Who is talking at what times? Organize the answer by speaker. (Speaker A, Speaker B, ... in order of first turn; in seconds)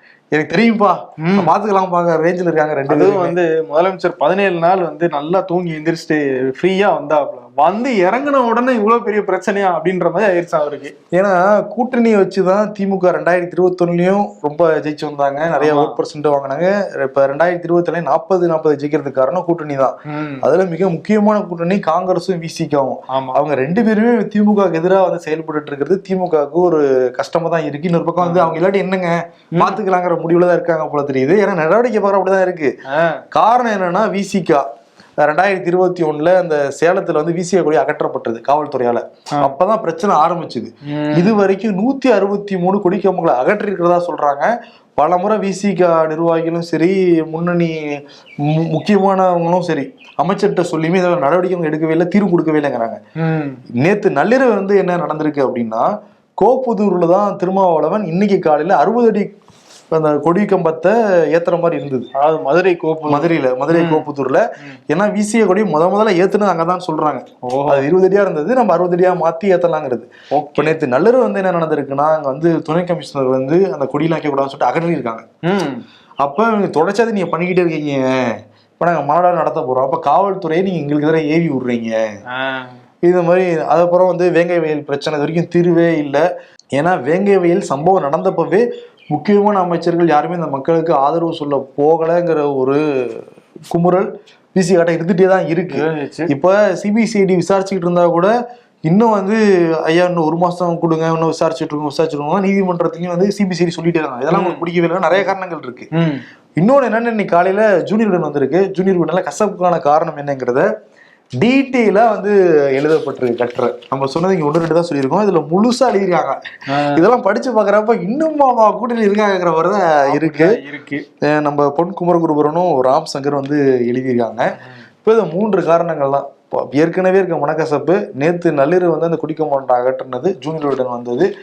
Speaker A: 0.3-3.4, 11.1-32.7, 33.3-34.6, 35.2-53.0, 53.8-59.3, 59.9-62.1, 63.1-75.2, 76.2-82.0, 83.0-86.2, 86.8-98.3, 98.9-105.9, 106.6-110.7, 111.4-120.6, 121.2-131.3
Speaker B: 1.2-1.5, 2.9-10.9, 15.5-16.0, 20.1-20.5, 23.1-23.4, 28.2-28.6, 32.9-33.2, 40.9-41.4, 53.2-53.6, 62.2-64.1, 67.5-67.9, 70.3-70.8, 75.5-75.8, 82.3-82.8, 95.7-96.3, 104.3-104.7, 106.0-106.2, 116.7-117.1, 120.1-121.0